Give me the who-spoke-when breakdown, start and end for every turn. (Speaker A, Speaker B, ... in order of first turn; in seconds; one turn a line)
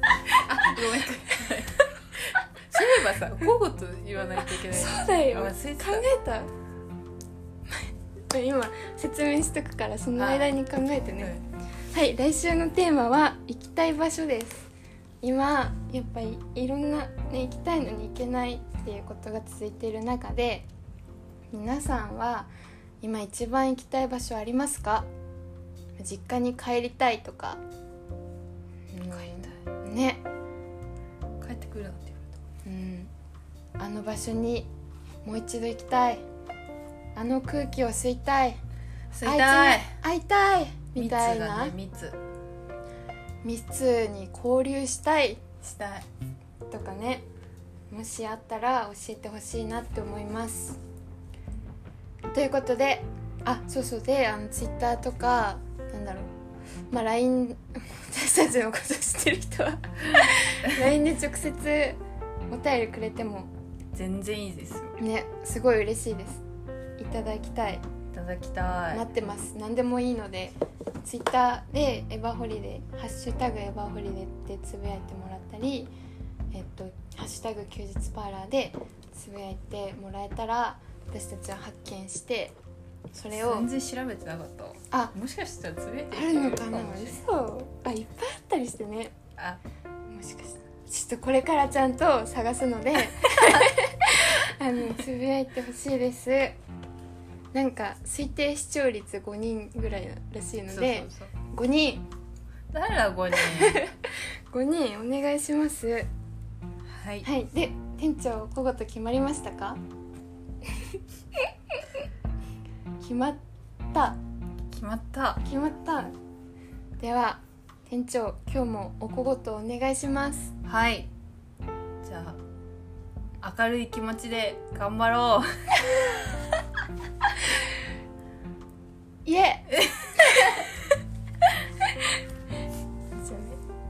Speaker A: 0.4-6.1
Speaker B: 4.5-6.5
Speaker B: 7.7-14.7
Speaker A: 10.2-10.5
Speaker A: 11.2-11.4
Speaker B: 15.2-20.7
Speaker B: 21.5-22.5
Speaker B: 23.0-25.1
Speaker B: 26.0-27.6
Speaker B: 28.9-30.2
Speaker A: 29.1-29.6
Speaker A: 31.4-32.4
Speaker B: 32.6-33.1
Speaker B: 33.8-34.7
Speaker B: 35.2-36.2
Speaker B: 37.1-38.6
Speaker A: 39.1-40.0
Speaker B: 39.2-41.7
Speaker A: 41.0-42.2
Speaker B: 43.4-45.5
Speaker A: 45.6-46.1
Speaker B: 46.7-47.2
Speaker B: 47.9-50.8
Speaker B: 52.3-56.3
Speaker B: 56.9-63.5
Speaker A: 63.9-65.0
Speaker B: 65.0-66.4
Speaker B: 67.0-67.8
Speaker A: 68.1-69.1
Speaker B: 68.9-75.9
Speaker B: 76.5-82.5
Speaker B: 83.1-83.7
Speaker A: 83.3-87.2
Speaker B: 86.1-89.2
Speaker B: 90.1-96.6
Speaker B: 97.5-102.0
Speaker A: 100.7-101.3
Speaker A: 102.7-103.8
Speaker B: 103.4-106.1
Speaker A: 106.8-107.3
Speaker B: 107.2-109.8
Speaker B: 110.6-112.0
Speaker B: 113.0-113.4
Speaker B: 113.9-114.2
Speaker A: 114.7-115.4
Speaker B: 115.4-116.1
Speaker B: 117.0-120.5
Speaker A: 120.6-121.1
Speaker A: 122.0-122.4
Speaker A: 123.4-126.3
Speaker B: 129.2-130.7
Speaker A: 129.7-130.8
Speaker B: 133.1-133.6